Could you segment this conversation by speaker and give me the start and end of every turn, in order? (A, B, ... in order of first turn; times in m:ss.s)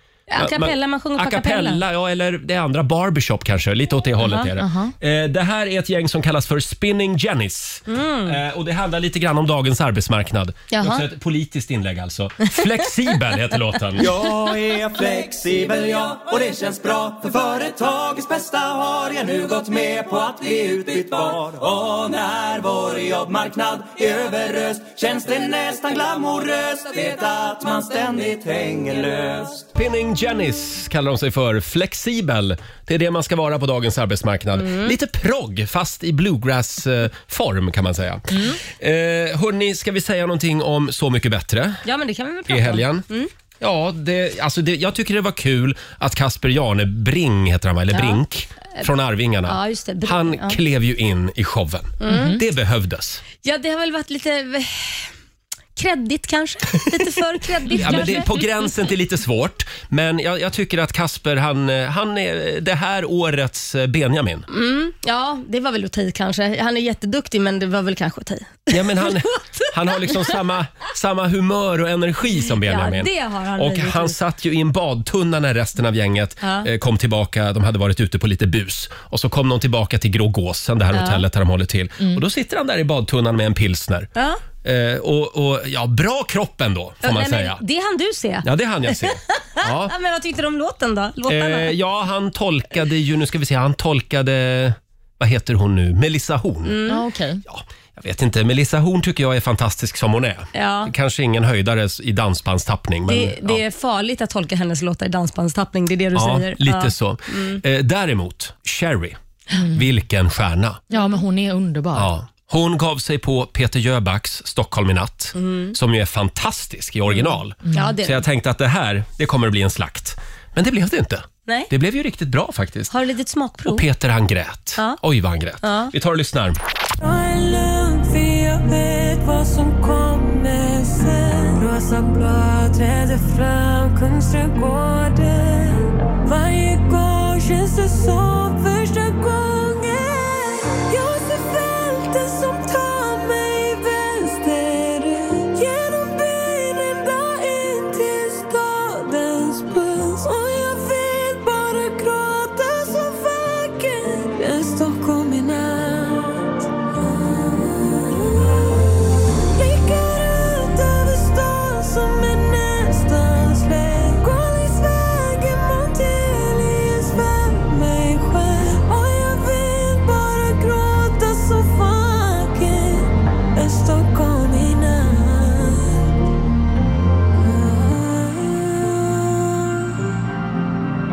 0:00.3-0:01.8 A
0:00.4-0:14.1 B
0:04.6-0:04.9 C
0:07.9-0:08.4 A
0:10.7-0:11.0 A
0:14.0-0:29.7 D
0:29.8-0:41.8 B
0:34.6-0:34.9 A
0:38.3-0:38.6 C
0:41.8-0:43.3 A
0:42.5-0:43.1 B
0:43.6-0:53.2 B
0:47.9-0:48.2 A
0:49.5-0:50.6 A
0:52.0-0:52.4 A
0:52.1-0:52.4 C
0:53.4-0:55.1 A
0:55.8-0:58.8 A
0:57.7-1:04.5 B
1:04.5-1:10.4 A
1:08.7-1:24.1 B
1:12.5-1:14.2 A
1:16.4-1:16.7 A
1:20.9-1:21.2 A
1:24.2-1:24.4 A
1:24.6-1:27.6 B
1:27.0-1:31.7 A
1:28.4-1:30.0 B
1:31.3-1:36.8 B
1:36.6-1:37.0 A
1:36.9-1:37.4 C
1:37.5-1:43.6 B
1:40.5-1:40.9 A
1:43.1-1:47.6 A
1:46.2-1:49.2 B
1:49.7-1:50.8 B
1:50.9-1:52.1 C
1:52.0-2:02.9 B
1:55.4-1:55.8 A
1:57.6-1:58.0 C
1:57.7-1:58.2 A
2:02.9-2:03.9 A
2:03.7-2:06.6 B
2:05.6-2:05.9 A
2:07.0-2:56.0 E
2:57.4-2:58.5 E